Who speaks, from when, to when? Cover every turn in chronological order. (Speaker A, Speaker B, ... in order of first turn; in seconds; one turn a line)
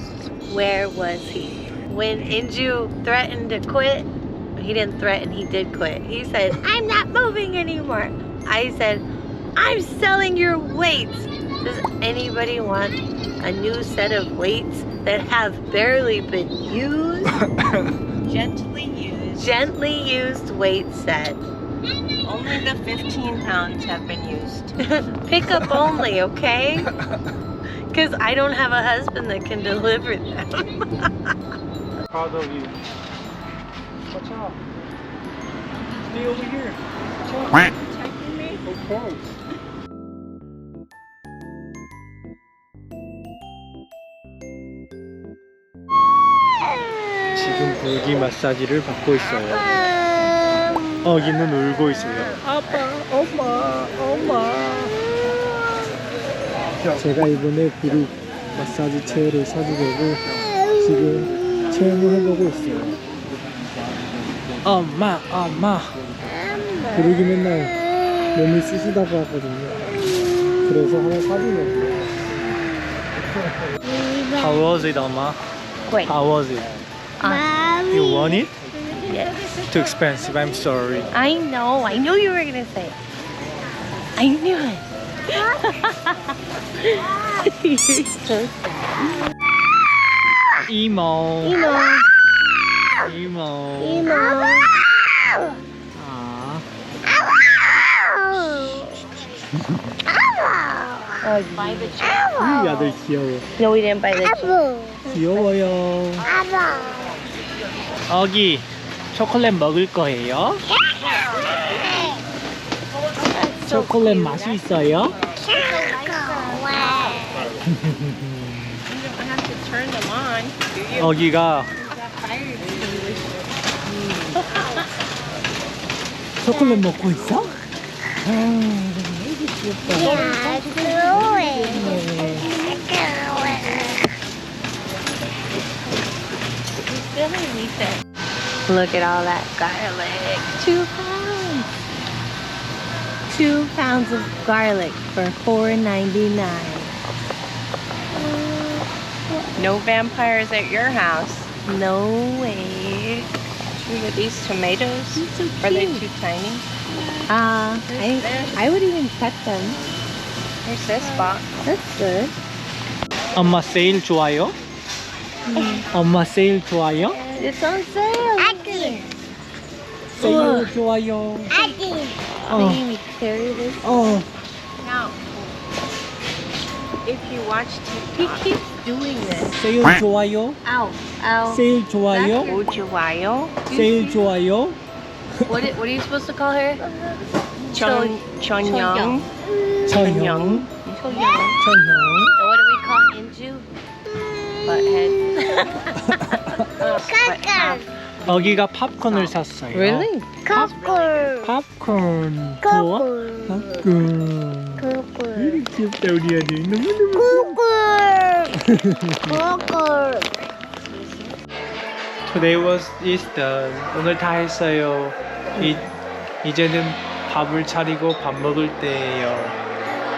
Speaker A: 0.5-17.5
Speaker B: 18.2-19.5
Speaker A: 19.4-21.4
Speaker B: 22.2-24.8
Speaker A: 24.8-26.9
Speaker A: 27.9-31.1
Speaker C: 32.1-32.8
Speaker C: 34.1-34.6
Speaker C: 36.1-37.7
Speaker C: 38.6-39.4
Speaker C: 47.4-49.8
Speaker C: 51.0-54.9
Speaker C: 56.9-60.2
Speaker C: 60.8-63.0
Speaker C: 64.6-66.0
Speaker C: 66.9-67.8
Speaker C: 68.3-69.9
Speaker C: 70.7-72.3
Speaker C: 74.2-75.4
Speaker A: 75.9-76.1
Speaker C: 76.1-76.7
Speaker A: 77.2-77.9
Speaker C: 77.9-78.6
Speaker A: 79.0-79.4
Speaker C: 79.7-81.1
Speaker A: 81.1-83.0
Speaker A: 84.2-86.2
Speaker A: 86.8-89.2
Speaker C: 90.7-91.6
Speaker A: 91.4-92.1
Speaker C: 93.0-94.2
Speaker A: 93.8-94.7
Speaker C: 95.9-96.7
Speaker A: 98.2-98.8
Speaker C: 99.6-100.0
Speaker A: 101.2-102.3
Speaker B: 101.5-102.4
Speaker C: 102.4-103.5
Speaker A: 103.6-105.5
Speaker C: 105.1-106.3
Speaker C: 108.1-110.7
Speaker B: 113.2-114.6
Speaker C: 113.6-115.2
Speaker B: 115.4-117.5
Speaker C: 117.7-118.8
Speaker B: 118.9-124.7
Speaker C: 121.0-121.7
Speaker C: 126.4-127.6
Speaker C: 128.3-129.4
Speaker A: 129.5-134.0
Speaker B: 130.1-132.0
Speaker C: 131.5-132.5
Speaker A: 136.8-138.0
Speaker A: 138.7-141.7
Speaker A: 143.3-146.9
Speaker A: 148.2-149.5
Speaker B: 149.6-151.5
Speaker A: 151.7-153.3
Speaker B: 153.8-156.7
Speaker A: 155.2-156.1
Speaker A: 157.3-159.8
Speaker B: 157.9-158.6
Speaker B: 160.6-161.5
Speaker A: 161.5-162.3
Speaker C: 163.3-164.6
Speaker A: 165.5-165.9
Speaker C: 165.9-167.2
Speaker B: 167.1-167.5
Speaker A: 167.4-169.2
Speaker A: 170.1-170.7
Speaker C: 170.2-171.6
Speaker A: 171.5-174.1
Speaker C: 172.5-172.8
Speaker C: 173.8-174.3
Speaker B: 174.8-175.6
Speaker B: 177.1-178.6
Speaker A: 178.2-179.5
Speaker C: 179.4-180.6
Speaker A: 180.6-182.9
Speaker C: 181.5-182.5
Speaker B: 182.5-183.6
Speaker A: 183.7-184.3
Speaker C: 183.7-184.8
Speaker A: 185.5-187.0
Speaker A: 187.7-189.3
Speaker B: 187.7-189.3
Speaker C: 189.9-190.7
Speaker B: 189.9-191.6
Speaker A: 191.0-191.6
Speaker C: 191.6-192.3
Speaker A: 192.4-193.7
Speaker B: 194.7-195.2
Speaker A: 194.7-197.9
Speaker C: 196.1-196.7
Speaker B: 196.8-197.9
Speaker C: 198.2-200.1
Speaker A: 199.2-201.5
Speaker B: 200.5-201.4
Speaker C: 201.4-207.6
Speaker A: 202.6-203.8
Speaker A: 204.8-205.6
Speaker A: 207.2-208.6
Speaker C: 208.5-209.4
Speaker A: 209.3-210.3
Speaker C: 212.3-215.9
Speaker C: 216.4-219.6